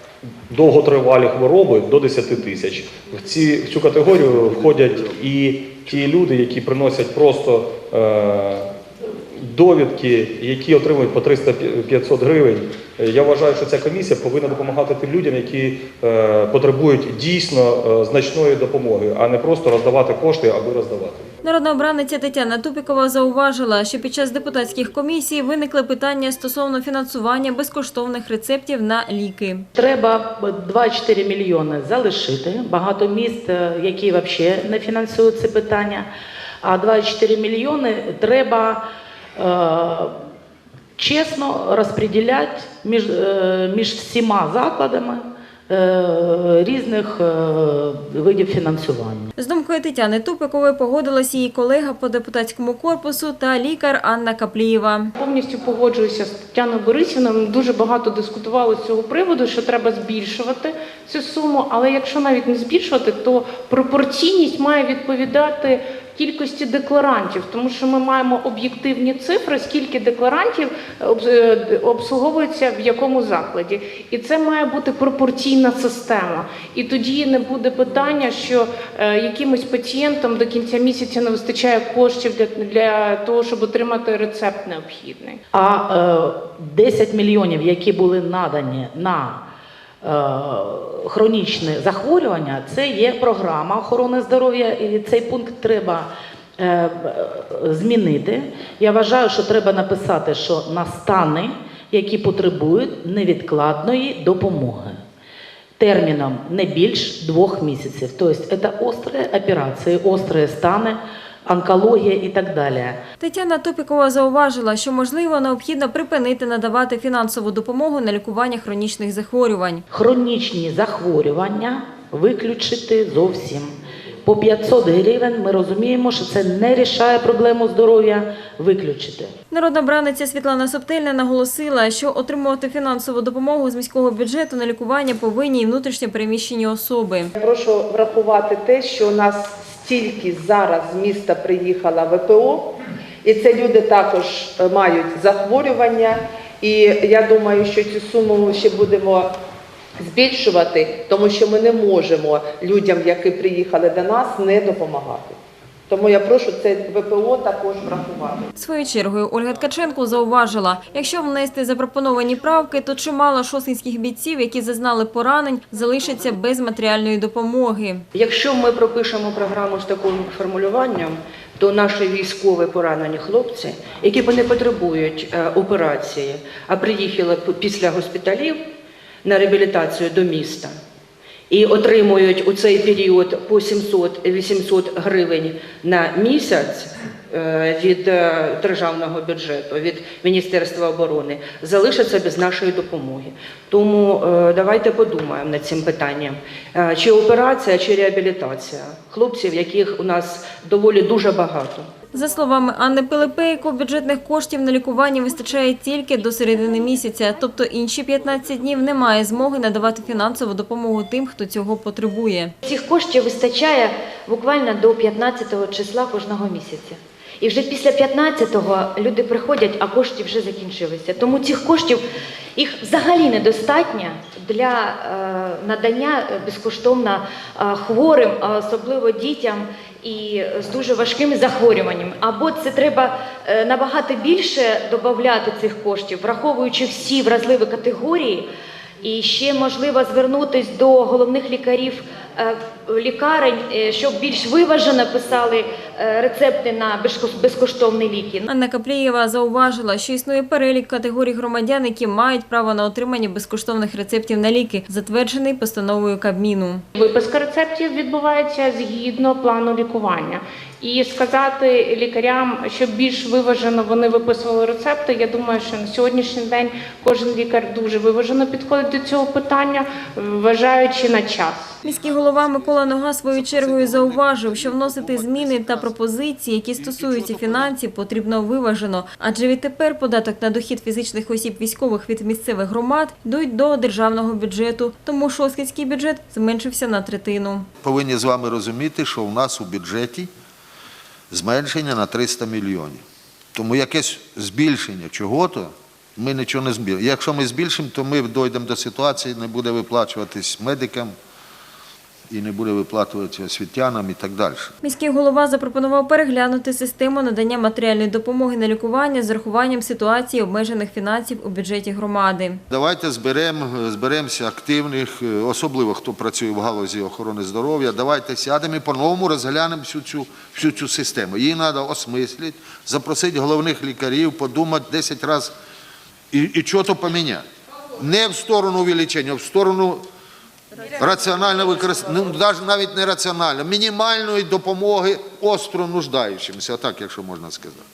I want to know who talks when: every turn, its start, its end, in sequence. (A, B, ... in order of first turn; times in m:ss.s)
0:00.5-0:08.7 A
0:09.4-0:21.3 A
0:21.4-0:29.7 B
0:29.8-0:36.1 C
0:36.6-0:38.8 C
0:39.4-0:40.1 C
0:41.0-0:49.3 C
0:49.4-0:55.1 B
0:55.2-1:25.4 D
1:25.5-1:29.4 C
1:30.0-1:45.0 C
1:45.8-1:53.0 C
1:53.2-1:59.8 B
1:59.9-2:03.7 C
2:04.2-2:09.3 C
2:09.5-2:17.3 B
2:17.4-2:29.3 E
2:30.0-2:35.4 E
2:35.9-2:38.5 E
2:38.6-2:48.0 B
2:48.2-2:58.6 F
2:59.3-3:00.7 F
3:01.5-3:21.8 F
3:22.1-3:32.5 B
3:32.6-3:42.0 G
3:42.6-3:58.5 G
3:59.0-4:08.5 G
4:08.5-4:16.8 B
4:17.0-4:31.7 D
4:31.8-4:36.0 H
4:31.8-4:47.7 B
4:36.8-4:37.7 H
4:47.8-4:50.3 H
4:51.3-4:53.0 H
4:53.5-5:01.1 H
5:02.3-5:04.8 H
5:04.8-5:12.6 B
5:12.7-5:25.6 H
5:26.3-5:27.4 H
5:28.0-5:30.0 H
5:31.0-5:37.8 H